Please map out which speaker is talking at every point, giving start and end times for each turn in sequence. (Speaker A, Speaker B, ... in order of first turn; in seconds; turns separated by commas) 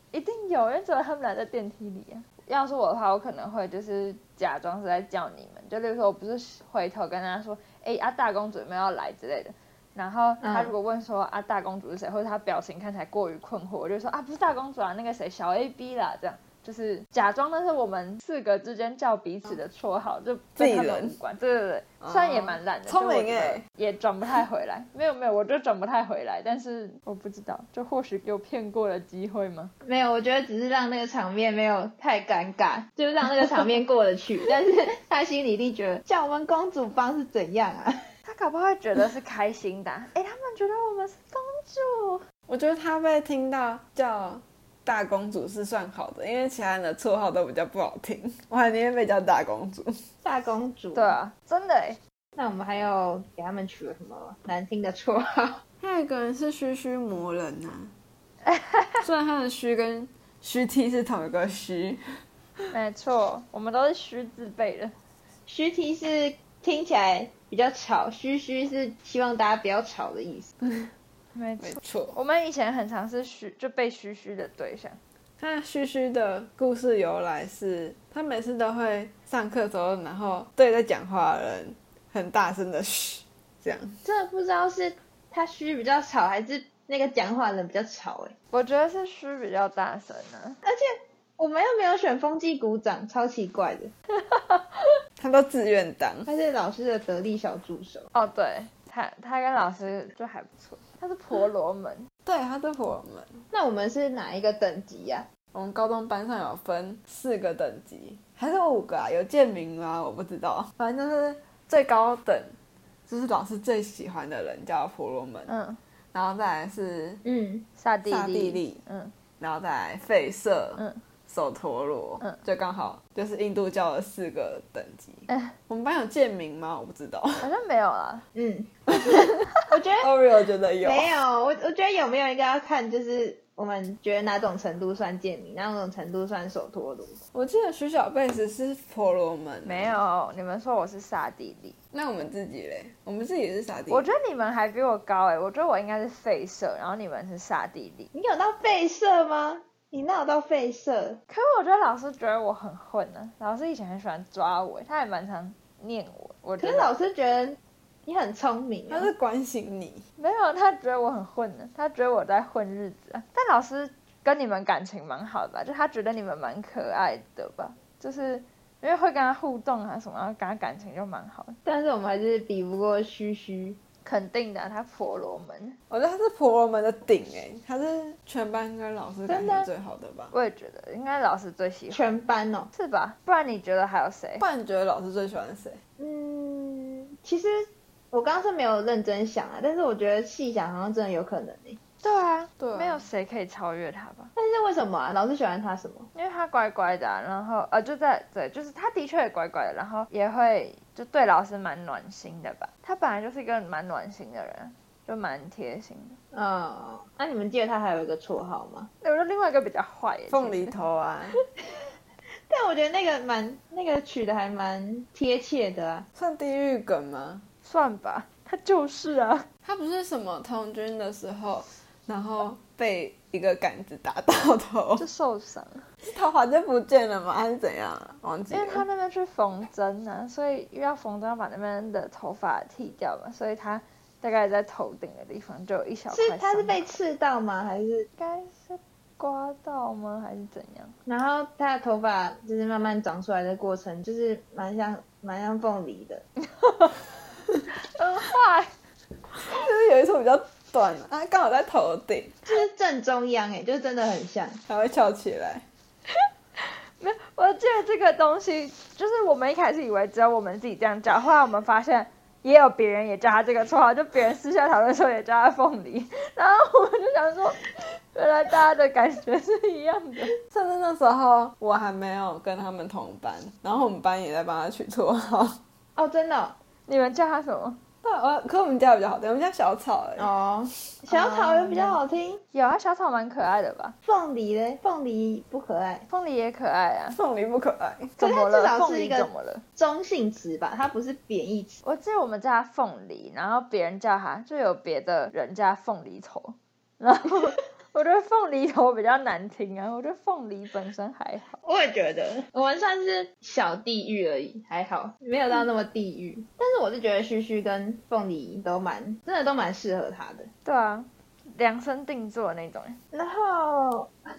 Speaker A: 0.1-29.7, Speaker B: 10.4-10.7, Speaker C: 20.6-21.2, Speaker C: 22.0-23.6, Speaker B: 29.8-37.9, Speaker A: 38.2-42.2, Speaker C: 42.5-50.0, Speaker B: 50.2-51.1, Speaker A: 50.9-52.0, Speaker B: 52.4-55.6, Speaker C: 55.8-57.9, Speaker A: 58.5-59.0, Speaker C: 59.0-62.0, Speaker A: 62.7-64.9, Speaker B: 65.5-70.5, Speaker C: 70.6-70.9, Speaker A: 71.3-75.0, Speaker C: 71.6-72.2, Speaker C: 75.4-84.0, Speaker B: 84.0-88.3, Speaker A: 88.5-90.6, Speaker B: 90.6-93.9, Speaker A: 94.3-94.9, Speaker C: 95.2-96.3, Speaker B: 96.3-98.1, Speaker A: 98.1-102.1, Speaker C: 102.2-103.4, Speaker B: 103.5-105.3, Speaker C: 105.5-112.5, Speaker C: 113.1-115.5, Speaker A: 115.5-115.8, Speaker C: 116.1-117.2, Speaker B: 117.2-117.7, Speaker A: 117.8-119.1, Speaker C: 118.1-118.8, Speaker C: 119.4-127.5, Speaker A: 127.4-128.2, Speaker B: 128.3-130.1, Speaker C: 128.9-129.3, Speaker C: 130.0-131.1, Speaker B: 130.8-137.2, Speaker C: 137.3-139.9, Speaker A: 139.6-141.8, Speaker C: 141.9-144.1, Speaker A: 143.9-148.1, Speaker B: 148.1-151.2, Speaker A: 151.3-156.9, Speaker B: 156.6-159.1, Speaker C: 158.9-160.0, Speaker A: 160.2-171.6, Speaker B: 171.6-173.8, Speaker A: 174.0-175.8, Speaker C: 175.9-180.3, Speaker B: 179.3-179.7, Speaker A: 180.3-184.4, Speaker B: 181.9-182.7, Speaker C: 184.4-185.8, Speaker B: 186.0-191.8, Speaker A: 192.0-194.3, Speaker C: 192.6-193.0, Speaker B: 194.3-196.1, Speaker A: 196.1-206.2, Speaker B: 206.3-208.9, Speaker A: 209.0-210.7, Speaker C: 210.3-211.4, Speaker B: 212.5-216.1, Speaker C: 216.2-217.4, Speaker A: 217.6-219.5, Speaker C: 219.6-225.1, Speaker A: 225.0-225.9, Speaker C: 226.0-228.8, Speaker A: 228.5-236.9, Speaker B: 236.1-238.1, Speaker A: 238.2-240.9, Speaker B: 241.1-246.2, Speaker A: 246.6-246.9, Speaker A: 247.9-248.7, Speaker C: 249.4-252.4, Speaker B: 252.5-254.6, Speaker C: 254.7-255.6, Speaker A: 256.6-270.3, Speaker C: 270.5-275.6, Speaker B: 275.9-276.6, Speaker A: 276.9-277.8, Speaker C: 278.0-280.3, Speaker B: 280.2-282.4, Speaker A: 281.1-282.0, Speaker A: 282.5-283.9, Speaker B: 284.0-286.1, Speaker A: 286.1-287.2, Speaker C: 287.1-288.1, Speaker A: 288.2-289.6, Speaker B: 288.2-291.8, Speaker A: 291.8-301.6, Speaker B: 301.6-310.5, Speaker A: 310.6-313.0, Speaker B: 313.1-314.1